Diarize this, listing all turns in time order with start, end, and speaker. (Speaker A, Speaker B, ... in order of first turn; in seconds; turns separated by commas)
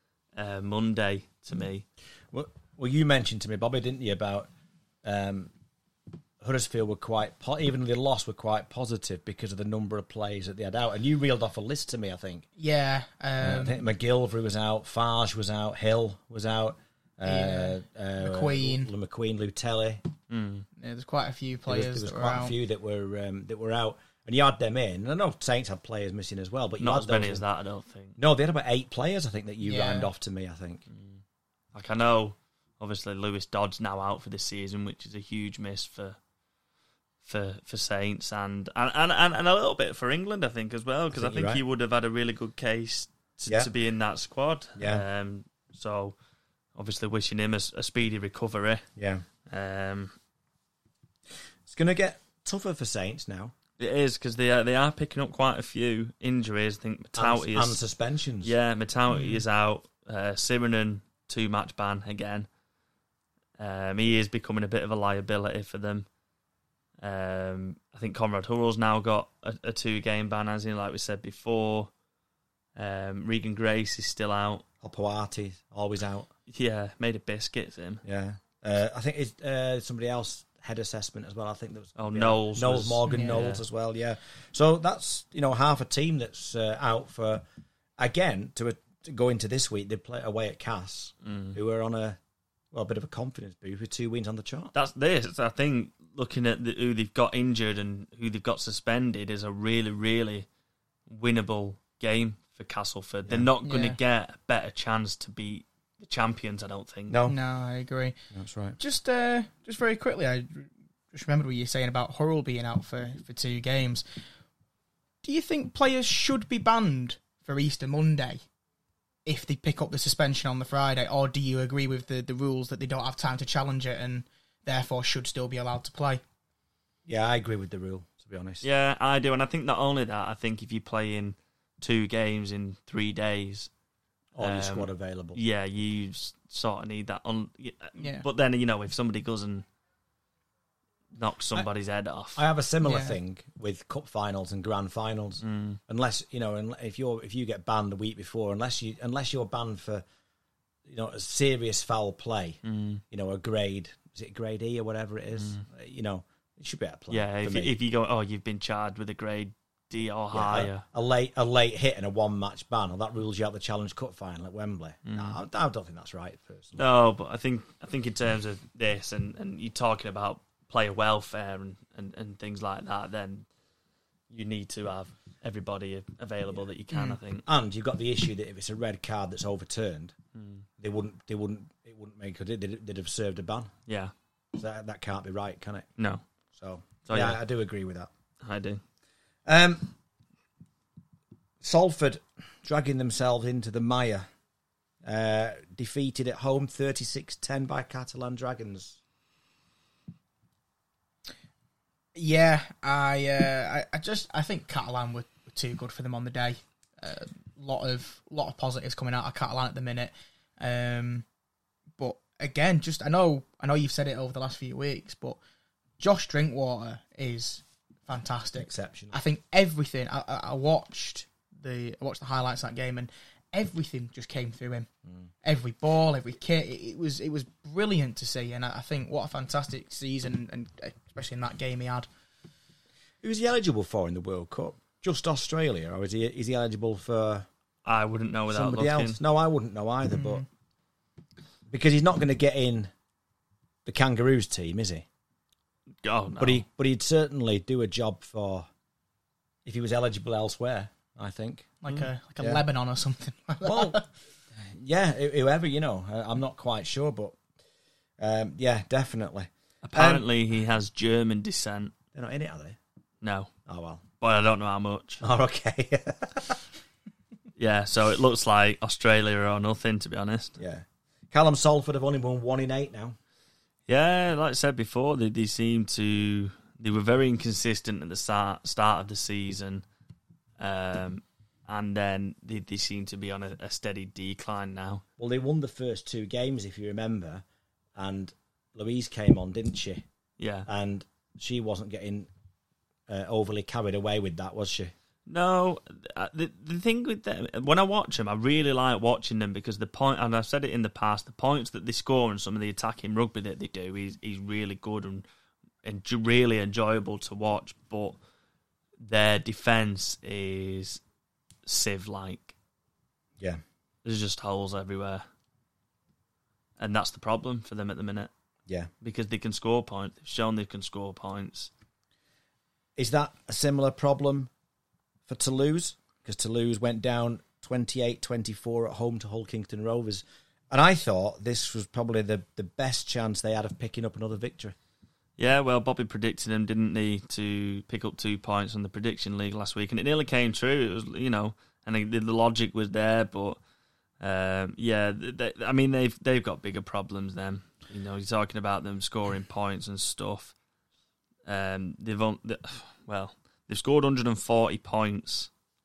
Speaker A: 0.4-1.9, Speaker B: 2.3-4.5, Speaker B: 5.0-5.5, Speaker B: 6.4-12.4, Speaker C: 12.6-13.8, Speaker B: 13.4-20.1, Speaker C: 17.2-18.9, Speaker A: 20.3-20.7, Speaker C: 20.8-22.6, Speaker B: 21.7-27.4, Speaker A: 26.8-28.2, Speaker B: 28.2-30.8, Speaker C: 29.6-30.1, Speaker A: 30.9-31.2, Speaker A: 31.7-36.2, Speaker A: 37.2-46.1, Speaker B: 41.1-41.6, Speaker B: 44.8-45.0, Speaker A: 46.8-48.9, Speaker B: 49.0-49.3, Speaker A: 49.5-50.1, Speaker B: 51.7-53.5, Speaker A: 53.8-57.8, Speaker B: 57.1-58.5, Speaker A: 58.4-62.5, Speaker C: 59.1-59.4, Speaker A: 63.6-66.1, Speaker A: 67.0-71.9, Speaker A: 72.8-74.6, Speaker B: 74.8-76.3, Speaker A: 76.5-78.0, Speaker B: 78.0-87.4, Speaker A: 82.0-83.6, Speaker C: 83.1-83.4, Speaker B: 88.0-92.2, Speaker A: 91.2-91.6, Speaker B: 92.7-94.7, Speaker A: 94.7-100.5, Speaker A: 101.1-107.2, Speaker C: 103.6-104.0, Speaker B: 107.1-107.4, Speaker C: 107.3-108.2, Speaker B: 108.3-108.8, Speaker C: 108.8-114.0, Speaker C: 115.2-118.4, Speaker C: 119.2-126.2, Speaker B: 127.1-128.7, Speaker A: 128.6-133.7, Speaker B: 134.3-135.4, Speaker A: 134.4-139.6, Speaker C: 138.0-138.2, Speaker A: 141.2-142.4, Speaker B: 142.4-150.0, Speaker C: 142.8-143.2, Speaker A: 145.4-145.8, Speaker B: 150.9-152.6, Speaker A: 152.7-153.0, Speaker B: 153.1-157.7, Speaker A: 155.4-155.6, Speaker A: 157.1-160.8, Speaker B: 160.3-166.8, Speaker A: 165.1-165.4, Speaker A: 166.8-173.5, Speaker A: 174.3-177.5, Speaker C: 176.9-177.2, Speaker B: 177.5-180.1, Speaker A: 180.3-180.7, Speaker B: 180.8-183.7, Speaker A: 183.9-184.1, Speaker B: 184.6-185.9, Speaker A: 186.0-186.2, Speaker B: 186.6-188.1, Speaker A: 187.1-187.4, Speaker A: 188.4-188.8, Speaker B: 189.5-189.9, Speaker B: 191.6-194.3, Speaker B: 195.0-199.0, Speaker C: 202.2-211.2, Speaker C: 212.0-215.4, Speaker C: 216.0-224.9, Speaker B: 218.6-219.2, Speaker C: 225.4-232.1, Speaker B: 233.2-237.5, Speaker A: 237.9-239.2, Speaker B: 238.5-240.4, Speaker C: 240.1-240.5, Speaker B: 241.7-242.9, Speaker B: 243.8-245.1, Speaker A: 246.0-246.6, Speaker B: 246.4-248.7, Speaker B: 249.7-251.7, Speaker C: 251.8-254.1, Speaker B: 253.6-254.0, Speaker B: 254.6-257.4, Speaker B: 258.2-260.3, Speaker A: 259.8-261.9, Speaker B: 262.1-262.8, Speaker A: 263.2-263.5, Speaker B: 263.7-264.0, Speaker A: 264.2-265.2, Speaker B: 265.2-266.6, Speaker A: 267.6-270.6, Speaker B: 270.6-273.2, Speaker A: 273.9-279.8, Speaker A: 280.6-285.0, Speaker B: 285.2-287.4, Speaker B: 287.9-290.0, Speaker A: 290.4-290.7, Speaker B: 290.7-292.3, Speaker B: 293.1-294.9, Speaker A: 295.3-305.2, Speaker A: 305.8-308.2, Speaker A: 309.0-311.0, Speaker A: 311.7-312.6, Speaker A: 314.1-315.2, Speaker A: 316.8-318.3, Speaker A: 319.0-321.7, Speaker B: 323.0-324.5, Speaker B: 325.3-334.8, Speaker A: 335.4-343.6, Speaker A: 344.2-350.5, Speaker A: 351.5-355.5